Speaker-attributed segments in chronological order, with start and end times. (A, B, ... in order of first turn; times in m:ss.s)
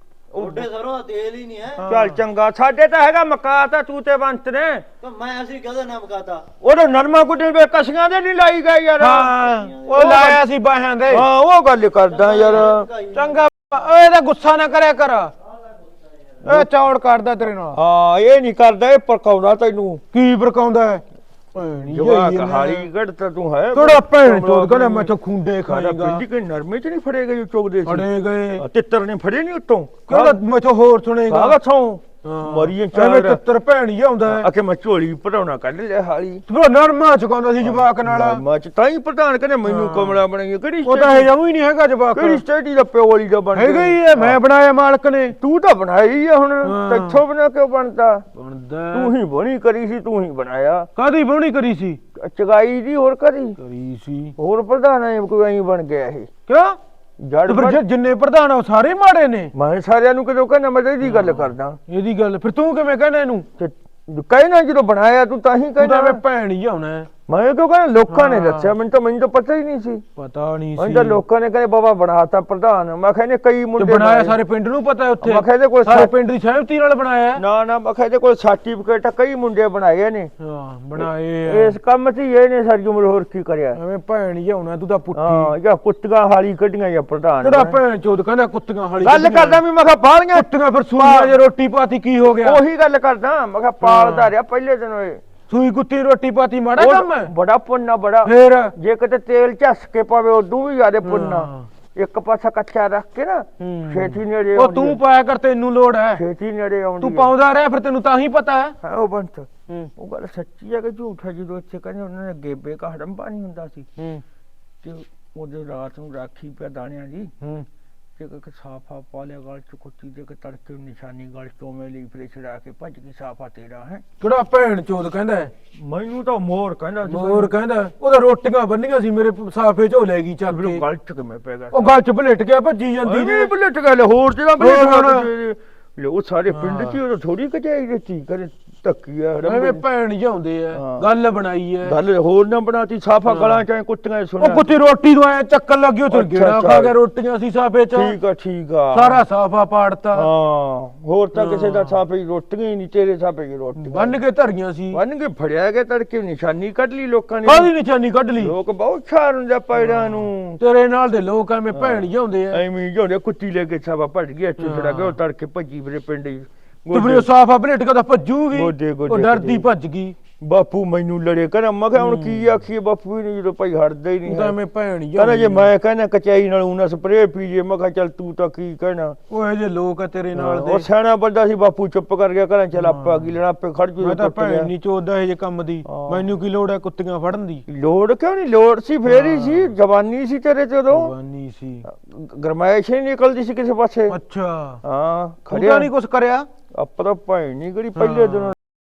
0:00.3-0:00.6 A
0:00.4-0:01.8 B
0:01.8-0:02.2 C
0:01.9-0:04.8 A
0:05.0-0:06.4 B
0:06.6-0:09.4 A
0:09.0-0:11.3 C
0:09.2-0:10.2 B
0:09.9-0:10.4 A
0:11.1-0:12.9 A
0:12.1-0:13.4 B
0:13.1-0:15.3 C
0:15.5-0:16.4 B
0:16.4-0:17.8 C
0:17.7-0:20.0 A
0:20.1-0:22.9 C
0:21.9-0:25.1 A
0:23.7-0:26.2 C
0:25.7-0:28.1 A
0:27.8-0:28.6 C
0:28.6-0:30.4 A
0:30.1-0:31.6 C
0:31.3-0:33.4 A
0:32.2-0:34.5 C
0:34.3-0:36.4 A
0:36.5-0:38.4 C
0:37.6-0:41.3 A
0:39.7-0:40.2 C
0:40.8-0:42.4 C
0:42.1-0:44.4 A
0:43.5-0:45.4 C
0:45.4-0:48.2 A
0:46.6-0:47.2 C
0:48.4-0:49.2 C
0:48.9-0:50.9 A
0:51.0-0:52.0 C
0:52.2-0:53.6 A
0:53.6-0:54.4 C
0:54.4-0:56.3 A
0:56.5-0:56.8 C
0:57.2-0:57.8 A
0:57.5-0:59.5 C
0:59.5-1:01.8 A
1:01.0-1:03.5 C
1:03.6-1:06.2 A
1:05.8-1:07.1 C
1:07.3-1:10.0 A
1:08.1-1:08.7 C
1:10.2-1:11.2 C
1:10.8-1:14.4 A
1:13.8-1:17.4 C
1:15.2-1:16.1 A
1:17.4-1:20.3 A
1:20.4-1:21.8 C
1:21.0-1:23.8 A
1:23.8-1:25.5 C
1:25.2-1:27.8 A
1:27.4-1:29.6 C
1:29.0-1:31.3 A
1:30.3-1:32.6 C
1:32.4-1:35.2 A
1:33.8-1:34.3 C
1:35.5-1:37.3 C
1:36.8-1:45.0 A
1:38.2-1:38.7 C
1:41.0-1:41.7 C
1:43.6-1:46.2 C
1:46.2-1:47.3 A
1:47.0-1:48.8 C
1:48.8-1:53.9 A
1:54.0-1:54.2 C
1:54.8-1:57.3 A
1:57.4-1:57.7 C
1:58.2-2:04.0 A
2:04.2-2:05.5 C
2:05.8-2:07.5 A
2:07.1-2:10.8 C
2:10.5-2:11.9 A
2:11.7-2:13.5 C
2:13.0-2:19.8 A
2:14.6-2:15.3 C
2:16.5-2:17.0 C
2:19.4-2:22.0 C
2:20.7-2:21.1 A
2:21.8-2:24.7 A
2:23.3-2:23.6 C
2:24.4-2:28.2 C
2:26.1-2:27.0 A
2:27.9-2:29.2 A
2:28.9-2:30.3 C
2:30.1-2:34.1 A
2:31.4-2:32.0 C
2:33.8-2:35.0 C
2:34.9-2:37.7 A
2:37.4-2:38.5 C
2:38.4-2:40.6 A
2:39.8-2:42.6 C
2:41.7-2:47.3 A
2:44.6-2:45.2 C
2:46.9-2:50.2 C
2:48.5-2:49.7 A
2:50.4-2:54.6 A
2:52.0-2:52.5 C
2:54.2-2:55.7 C
2:55.2-2:59.2 A
2:59.3-3:00.9 C
3:00.3-3:04.7 A
3:02.8-3:03.4 C
3:04.0-3:07.6 C
3:05.9-3:06.3 A
3:07.7-3:11.1 A
3:09.0-3:09.7 C
3:10.9-3:11.8 C
3:11.9-3:14.2 A
3:14.1-3:14.8 C
3:14.8-3:15.9 A
3:15.5-3:16.5 C
3:16.7-3:18.6 A
3:18.0-3:18.6 C